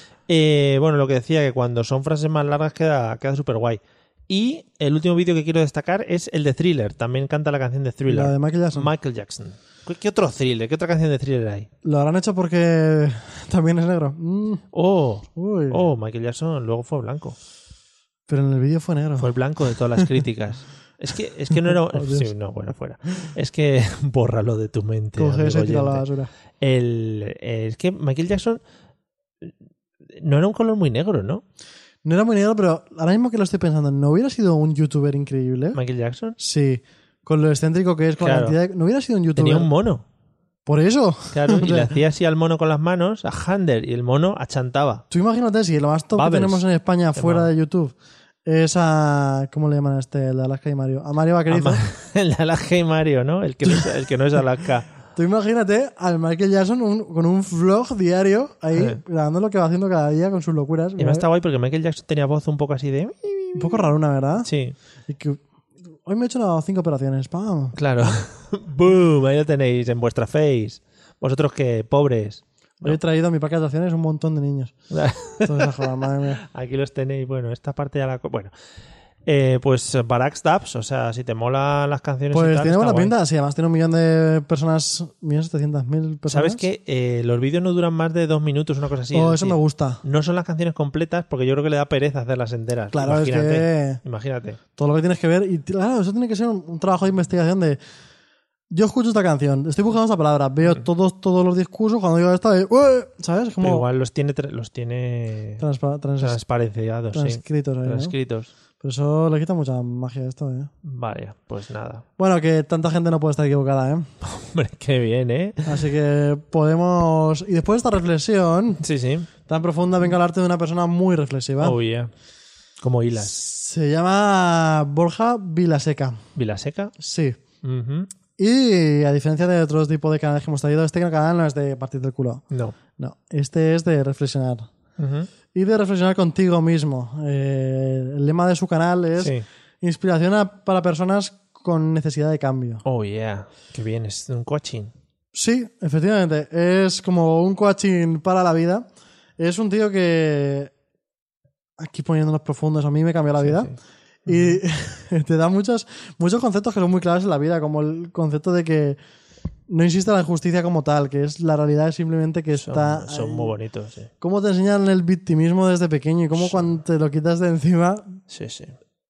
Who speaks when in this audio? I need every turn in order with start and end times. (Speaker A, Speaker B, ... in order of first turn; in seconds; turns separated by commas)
Speaker A: 0.3-11.7, Speaker B: 8.1-8.9, Speaker B: 11.8-14.6, Speaker A: 14.7-17.4, Speaker B: 15.4-15.8, Speaker B: 18.3-19.3, Speaker A: 19.2-26.1, Speaker B: 21.6-22.3, Speaker B: 25.2-26.3, Speaker A: 26.6-28.6, Speaker A: 30.2-31.4, Speaker B: 32.0-35.8, Speaker A: 35.8-36.4, Speaker B: 36.4-39.7, Speaker A: 38.2-38.6, Speaker A: 39.4-40.1, Speaker B: 40.7-42.0, Speaker A: 41.3-45.0, Speaker B: 45.1-47.9, Speaker A: 46.2-47.5, Speaker B: 48.5-51.8, Speaker A: 51.5-54.9, Speaker B: 55.1-61.3, Speaker A: 58.7-59.0, Speaker A: 61.0-63.9, Speaker B: 63.5-64.5, Speaker A: 64.4-64.8, Speaker B: 65.1-65.4, Speaker B: 66.0-67.8, Speaker A: 67.8-73.0, Speaker B: 72.8-74.7, Speaker A: 74.9-75.9, Speaker B: 75.4-76.4, Speaker A: 76.5-78.5, Speaker A: 79.3-83.1, Speaker B: 82.3-86.6, Speaker A: 86.3-94.6, Speaker B: 89.1-90.0, Speaker B: 92.9-94.0, Speaker B: 94.8-97.8, Speaker B: 98.7-103.9, Speaker A: 103.6-105.6, Speaker B: 105.6-106.4, Speaker A: 106.2-108.5, Speaker B: 107.1-108.1, Speaker B: 108.8-110.7, Speaker A: 110.8-112.0, Speaker B: 112.2-114.1, Speaker A: 114.2-115.8, Speaker B: 115.7-118.8, Speaker A: 118.8-119.3, Speaker B: 119.5-121.8, Speaker A: 121.6-122.1, Speaker A: 122.8-123.3, Speaker B: 123.2-126.2, Speaker A: 126.4-126.9, Speaker B: 127.0-127.4, Speaker A: 127.6-128.1, Speaker B: 128.4-132.4, Speaker A: 132.5-132.8, Speaker B: 133.0-134.7, Speaker A: 135.0-135.3, Speaker B: 135.5-142.8, Speaker A: 139.2-139.4, Speaker A: 142.8-144.9, Speaker B: 145.3-148.8, Speaker B: 149.4-150.7, Speaker B: 151.8-153.7, Speaker A: 153.4-153.8, Speaker A: 154.3-154.6, Speaker B: 154.3-159.0, Speaker B: 159.7-163.6, Speaker A: 162.5-164.1, Speaker B: 164.2-168.1, Speaker A: 166.3-166.7, Speaker A: 168.3-168.8